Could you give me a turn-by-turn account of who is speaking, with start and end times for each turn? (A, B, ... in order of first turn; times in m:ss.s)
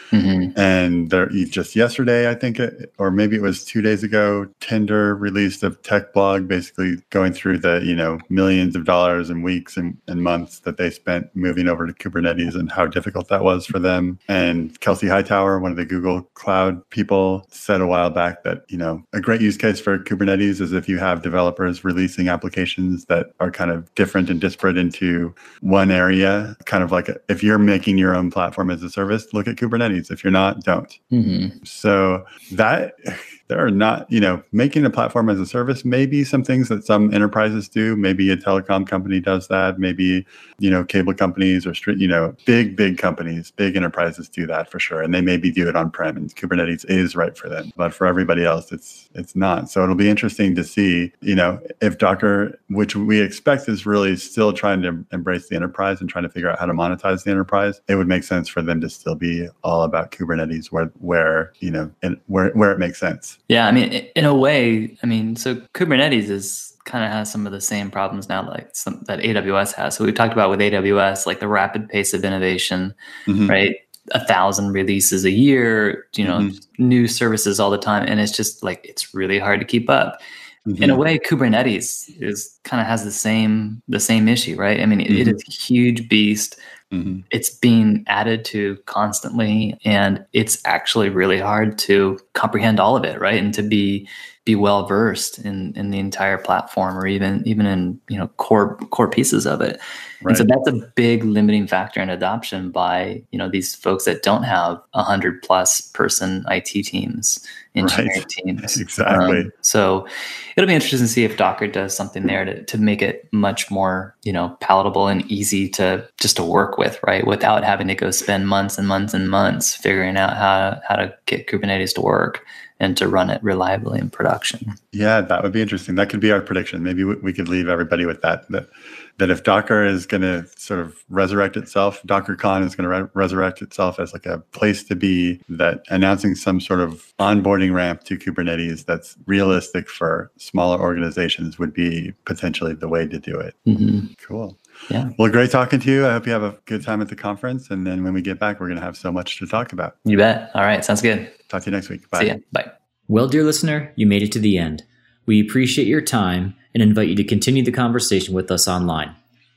0:00.1-0:00.5 A
0:00.6-0:31.0 B
0:31.1-0:31.6 A
0:31.6-1:03.4 B
1:03.5-1:12.9 A
1:13.3-1:13.6 B
1:13.5-1:20.2 A
1:16.2-1:16.5 B
1:20.6-1:21.0 B
1:20.8-1:26.6 A
1:25.1-1:25.4 B
1:26.9-1:27.2 B
1:27.3-2:04.8 A
1:40.2-1:40.5 B
1:47.8-1:49.5 B
2:04.9-2:23.6 B
2:23.6-2:24.1 A
2:24.2-2:24.6 B
2:25.2-2:30.0 B
2:30.0-2:31.4 A
2:31.5-2:32.4 B
2:32.2-2:32.7 A
2:33.1-2:39.1 C